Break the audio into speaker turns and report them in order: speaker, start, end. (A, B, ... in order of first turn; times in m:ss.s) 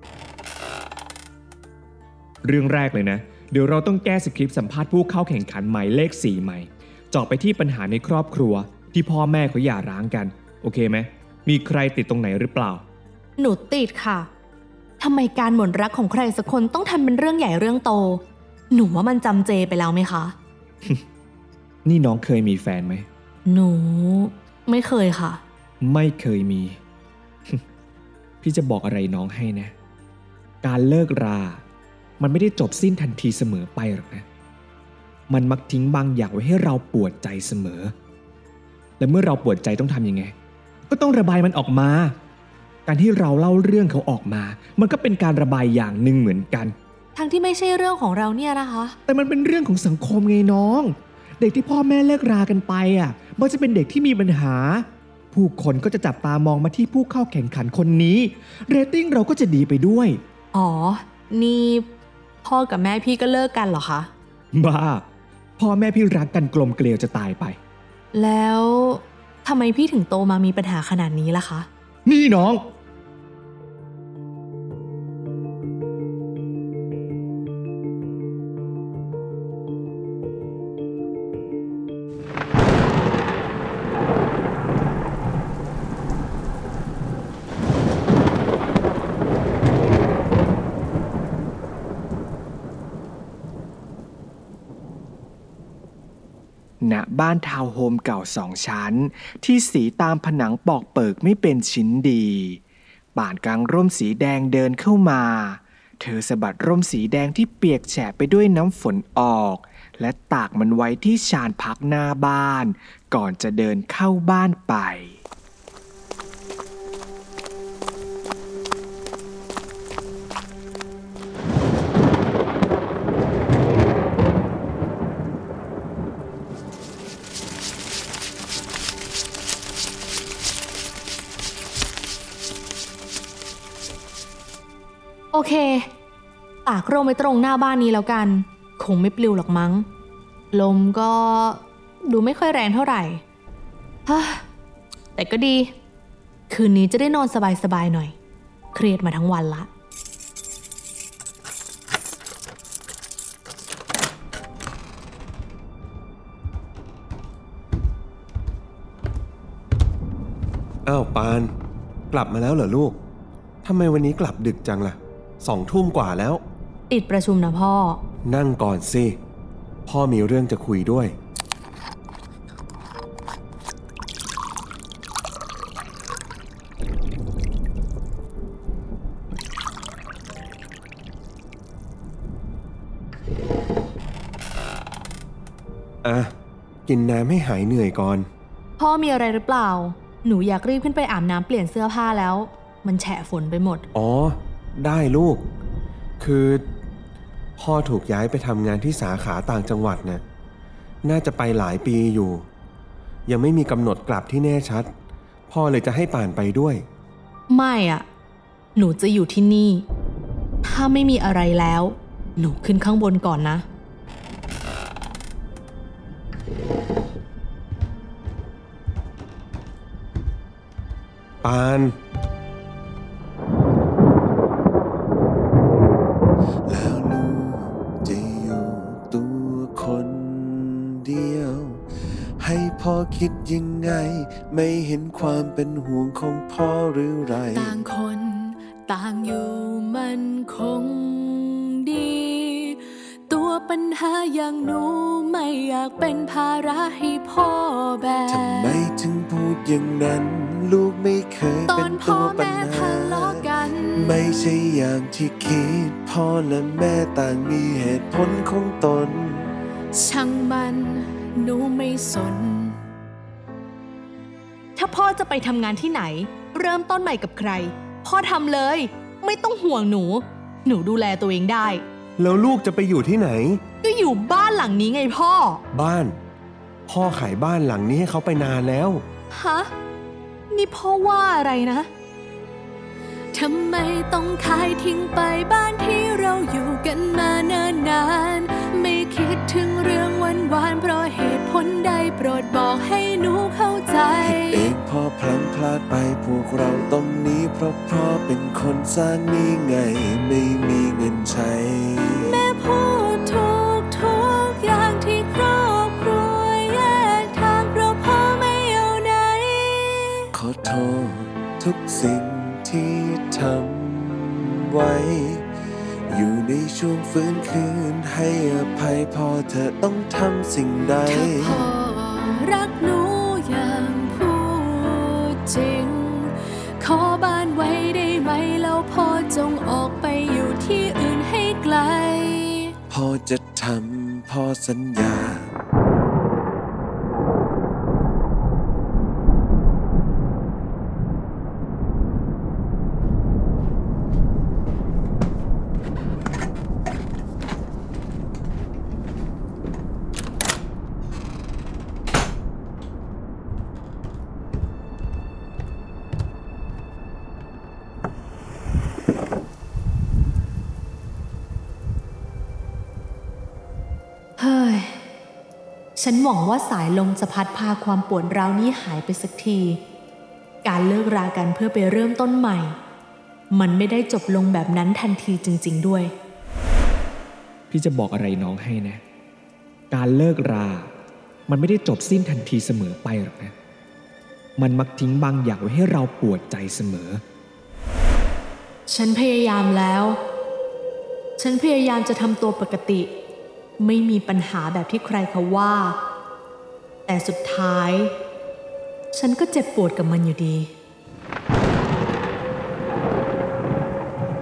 0:02.4-0:12.8 A
0:13.4-0:14.3 B
0:15.0-0:20.4 B
0:21.8-0:23.1 A
0:23.5-0:25.4 B
0:25.8-0:26.8 A
0:28.4-0:29.7 A
0:30.6-0:31.6 A
0:32.2-0:34.3 A
0:35.3-0:37.9 A
0:39.0-0:40.3 A
0:40.9-0:42.2 A
0:42.9-0:46.8 A
0:47.2-0:49.0 B
0:49.1-1:00.2 A
1:00.5-1:01.9 B
1:02.4-1:04.1 B
1:04.5-1:05.1 A
1:05.6-1:07.6 A
1:08.1-1:11.7 B
1:12.1-1:12.6 A
1:36.8-1:42.6 A
1:43.2-1:55.2 A
2:15.3-2:15.9 B
2:16.7-2:19.9 B
2:20.5-2:23.2 B
2:24.1-2:24.4 B
2:25.2-2:25.7 B
2:26.5-2:28.2 B
2:28.7-2:29.7 B
2:40.9-2:41.5 C
2:42.1-2:43.0 C
2:43.6-2:46.4 C
2:46.9-2:48.0 B
2:48.3-2:49.2 C
2:49.9-2:51.2 C
3:06.0-3:06.3 C
3:06.9-3:08.3 C
3:08.8-3:13.8 B
3:13.9-3:15.5 C
3:16.2-3:16.6 C
3:17.6-3:20.2 C
3:21.0-3:22.5 C
3:23.3-3:24.9 C
3:25.5-3:26.8 C
3:27.5-3:28.0 B
3:28.8-3:29.9 B
3:30.6-3:33.7 B
3:41.4-3:42.0 C
3:46.7-3:51.8 D
3:52.4-3:57.8 D
3:57.4-4:08.8 E
4:08.3-4:19.5 D
4:11.7-4:14.5 E
4:19.9-4:22.8 E
4:24.8-4:31.8 B
4:32.2-4:33.6 C
4:33.8-4:35.6 B
4:35.7-4:36.2 C
4:36.9-4:39.0 C
4:39.3-4:39.7 B
4:40.5-4:41.9 B
4:43.3-4:54.7 E
4:54.2-5:02.4 D
5:02.2-5:10.3 E
5:10.3-5:15.4 D
5:16.1-5:21.6 D
5:21.1-5:32.7 E
5:32.9-5:35.5 D
6:04.4-6:05.0 B
6:06.0-6:09.8 B
6:10.6-6:12.8 B
6:13.5-6:16.1 B
6:17.7-6:19.0 A
6:19.9-6:20.9 A
6:21.5-6:23.5 A
6:24.6-6:27.2 A
6:28.9-6:30.2 B
6:31.4-6:33.1 B
6:33.8-6:36.0 B
6:37.1-6:38.1 B
6:39.1-6:40.7 B